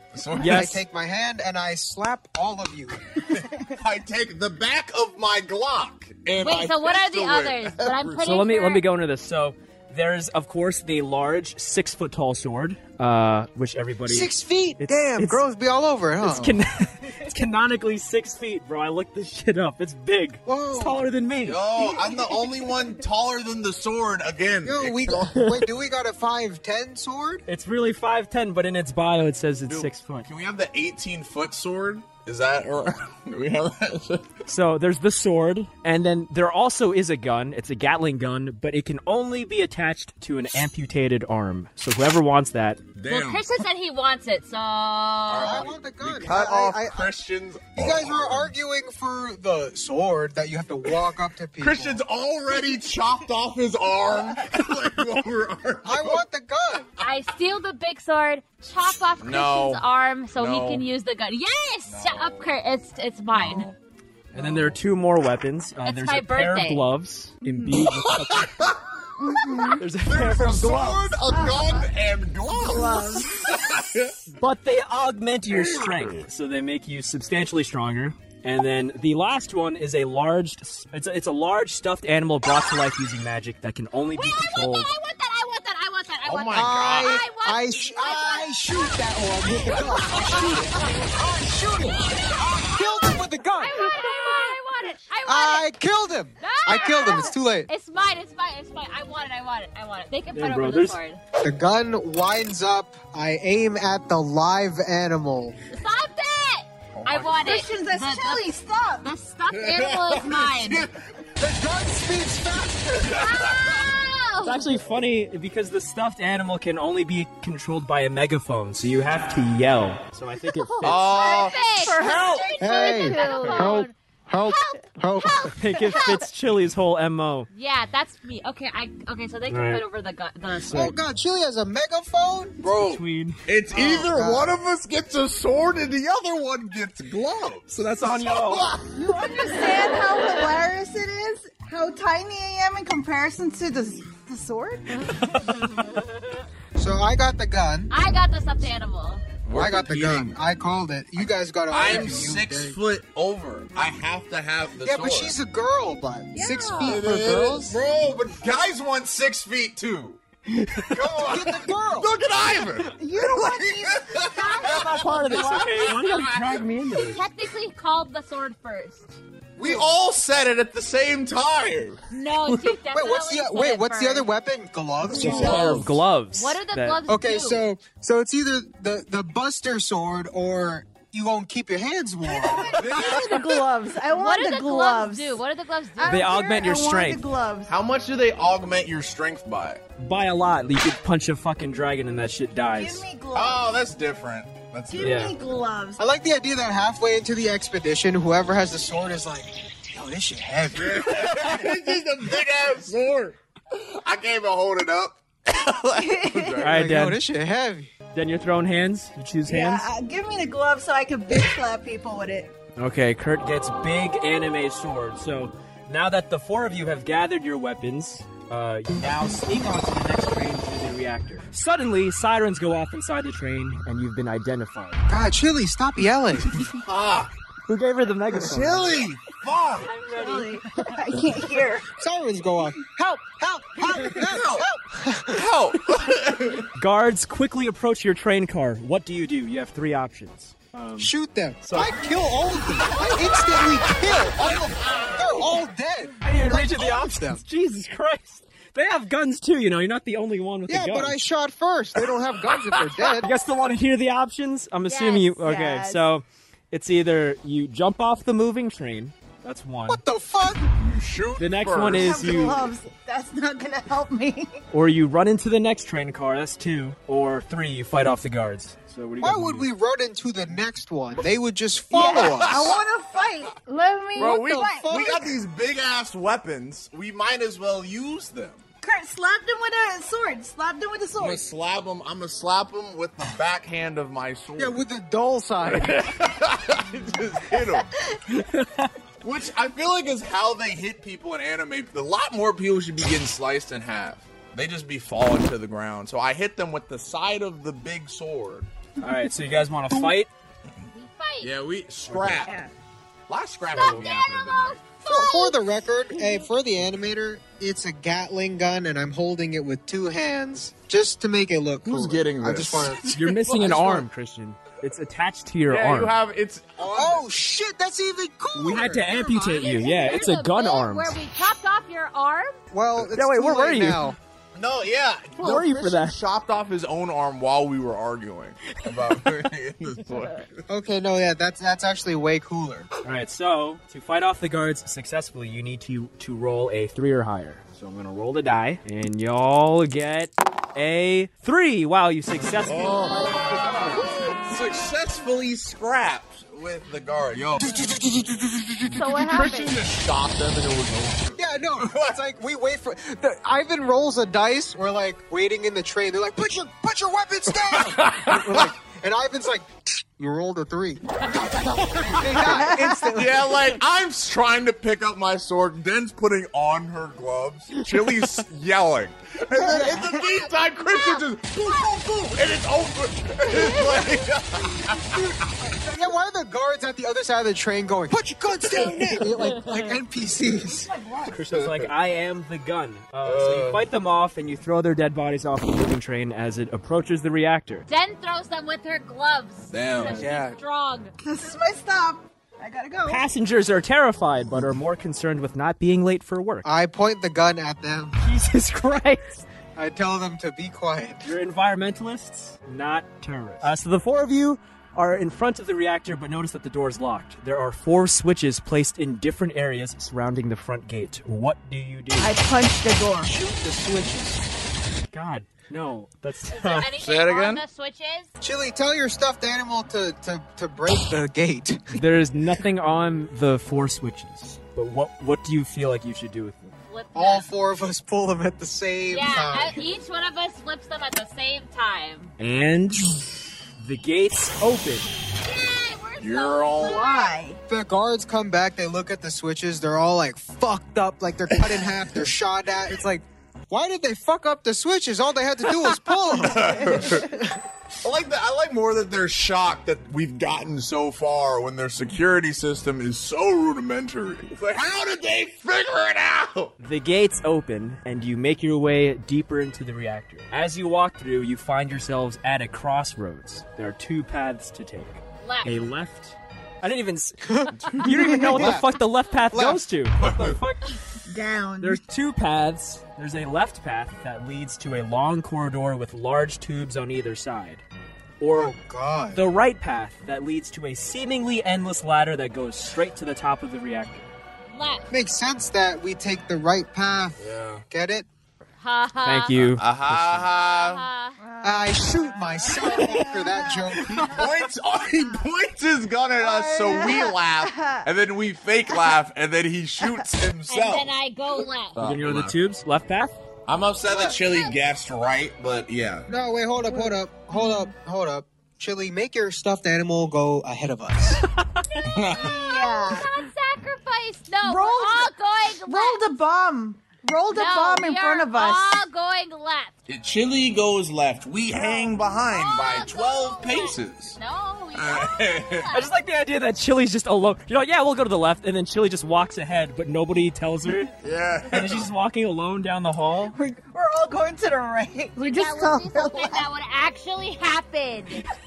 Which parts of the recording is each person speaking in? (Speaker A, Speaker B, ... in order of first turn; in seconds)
Speaker A: 0.1-0.7, 3.3-8.4, 21.4-25.3, 29.6-34.3, 43.0-43.5, 45.2-48.5, 51.6-56.2, 59.2-59.8, 60.3-60.9, 61.9-62.4, 63.3-63.8, 64.3-64.8, 67.6-68.7, 69.2-74.2, 75.5-76.2, 86.2-87.2, 107.0-107.5, 109.5-110.9, 120.8-122.5, 132.6-139.2, 149.4-150.3, 151.7-155.3, 156.6-160.2, 160.9-166.5, 169.6-172.7, 175.2-175.5, 182.7-183.6, 187.7-189.8, 193.3-195.4, 200.8-206.7, 226.6-227.3, 228.4-229.9, 234.2-234.6, 235.3-236.7, 244.4-245.5, 260.8-262.2, 272.0-272.8, 274.2-278.6, 281.2-284.8, 285.7-287.9, 289.2-298.7, 301.4-302.6, 303.3-304.8, 311.8-313.7, 315.7-317.3, 324.5-330.5, 342.6-347.8, 348.9-352.1, 357.7-358.7, 362.1-362.4, 363.1-375.2, 378.6-379.2, 381.5-381.9, 383.2-383.8, 389.7-390.5, 417.0-417.6, 436.2-437.1, 446.4-447.3, 448.0-456.7, 467.8-468.3, 470.2-470.6, 487.4-487.8, 489.5-491.0, 494.2-501.2, 501.9-502.5, 503.7-506.3, 512.0-512.5, 520.1-524.4, 524.9-525.9, 531.2-532.1
Speaker B: 0.4-0.8, 8.2-15.4, 16.2-21.6, 27.5-30.3, 34.5-42.8, 64.3-68.7, 69.8-71.2, 74.3-84.9, 100.3-101.0, 114.4-121.1, 125.5-127.5, 129.5-129.8, 132.8-133.4, 137.7-138.7, 160.5-160.9, 164.6-167.2, 175.2-177.0, 186.0-187.3, 190.0-193.0, 195.0-195.3, 206.6-207.2, 208.1-209.9, 212.8-225.0, 227.7-229.0, 229.8-230.9, 236.7-242.0, 246.2-251.2, 253.1-260.0, 261.4-262.6, 264.7-269.7, 288.3-288.9, 299.0-300.3, 302.1-302.4, 313.0-316.2, 318.5-321.2, 323.1-324.1, 325.4-326.2, 333.0-343.3, 381.3-387.9, 393.1-396.7, 398.2-399.4, 401.2-412.3, 413.2-414.4, 415.1-416.9, 421.9-426.7, 432.4-433.2, 433.8-435.1, 456.8-467.4, 468.0-471.0, 471.8-477.8, 478.4-478.7, 479.3-484.2, 489.2-490.5, 492.9-493.2, 502.0-503.4, 525.9-531.1, 531.7-533.5
Speaker C: 0.4-3.2, 14.1-16.6, 20.4-21.0, 24.6-27.4, 45.4-47.1, 47.7-52.0, 55.8-56.9, 86.5-93.8, 95.2-97.7, 101.4-105.5, 111.4-113.2, 122.6-125.5, 130.7-132.6, 133.7-134.6, 146.7-147.9, 149.5-152.8, 154.8-157.8, 161.1-162.1, 172.9-175.9, 177.1-182.8, 196.0-201.0, 206.7-207.9, 225.1-226.6, 231.9-235.5, 241.0-247.4, 250.7-253.3, 259.9-260.6, 269.2-272.8, 274.2-275.4, 284.6-286.0, 305.0-314.1, 316.8-319.7, 322.7-324.1, 330.7-332.9, 343.3-344.0, 347.6-349.0, 351.3-363.5, 374.9-380.9, 390.2-390.5, 396.6-398.1, 399.8-401.3, 418.4-422.0, 427.1-429.9, 437.7-447.4, 467.4-467.8, 468.4-468.9, 469.5-469.8, 478.5-479.4, 485.1-488.2, 491.6-494.4, 504.1-504.3, 506.3-511.4
Speaker D: 6.4-8.8, 43.0-45.7, 57.0-63.7, 65.8-66.8, 84.1-91.1, 92.1-92.6, 93.6-95.7, 96.4-101.2, 105.7-110.9, 113.0-114.7, 121.0-126.2, 127.5-131.0, 147.9-149.2, 165.4-165.8, 167.0-169.1, 172.1-174.3, 175.3-177.6, 184.1-186.3, 254.8-255.4, 300.9-301.5, 303.7-306.3, 319.5-322.5, 370.2-371.9, 373.4-374.1, 387.9-391.1, 416.5-418.3, 426.9-427.5, 429.1-432.3, 435.4-437.4, 465.4-465.8, 484.7-485.1, 488.8-489.6, 490.5-491.4, 500.7-502.0, 504.4-504.8, 512.0-516.4, 517.5-519.9, 521.8-526.1, 535.4-538.4
Speaker E: 69.3-69.7, 71.3-71.7, 72.5-73.5, 107.3-109.1, 120.5-120.9, 121.4-123.8, 125.7-126.0, 138.9-145.3, 156.3-157.0, 163.0-165.0, 182.2-185.4, 186.0-187.8, 192.7-193.8, 194.9-196.0, 205.9-206.6, 209.4-212.5, 230.1-231.9, 255.4-256.0, 261.9-264.6, 271.9-275.1, 278.8-281.4, 348.9-349.8, 362.6-363.0, 369.6-370.1, 380.7-381.3, 391.2-393.2, 412.2-413.4, 436.8-437.6, 471.2-472.0, 491.4-494.3, 496.4-498.0, 506.9-507.9, 512.3-513.3, 514.6-515.3, 515.9-519.0, 533.5-536.6